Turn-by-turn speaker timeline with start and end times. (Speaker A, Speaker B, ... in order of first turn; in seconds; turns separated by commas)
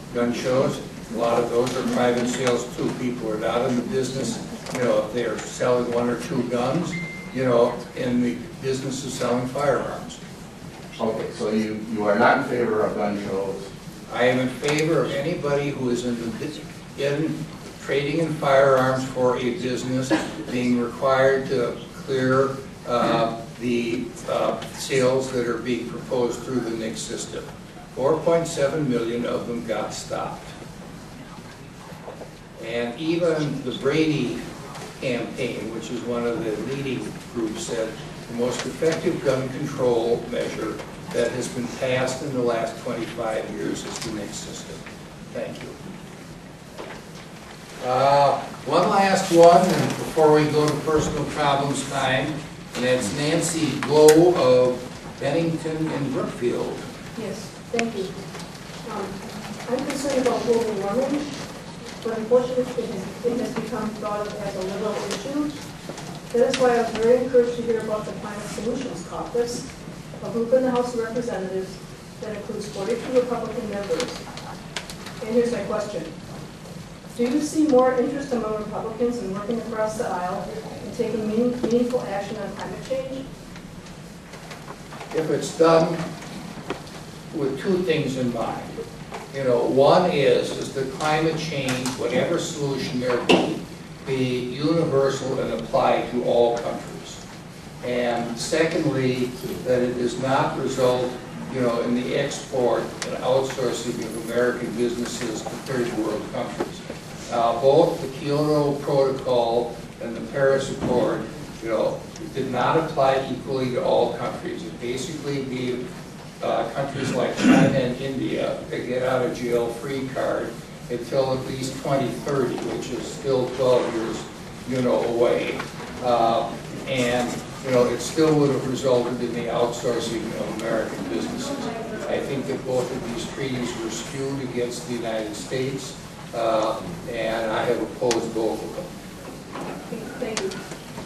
Speaker A: 0.1-10.2, Speaker B: 11.0-13.7, Speaker A: 14.1-30.5, Speaker A: 32.6-44.8, Speaker A: 45.3-45.7, Speaker A: 47.8-56.8, Speaker C: 57.1-58.1, Speaker C: 58.9-61.4, Speaker C: 62.0-65.6, Speaker C: 66.3-69.7, Speaker C: 70.2-74.2, Speaker C: 75.2-76.1, Speaker C: 77.1-83.2, Speaker A: 85.1-86.0, Speaker A: 87.3-97.2, Speaker A: 97.8-115.8, Speaker A: 116.4-138.9, Speaker C: 139.9-140.5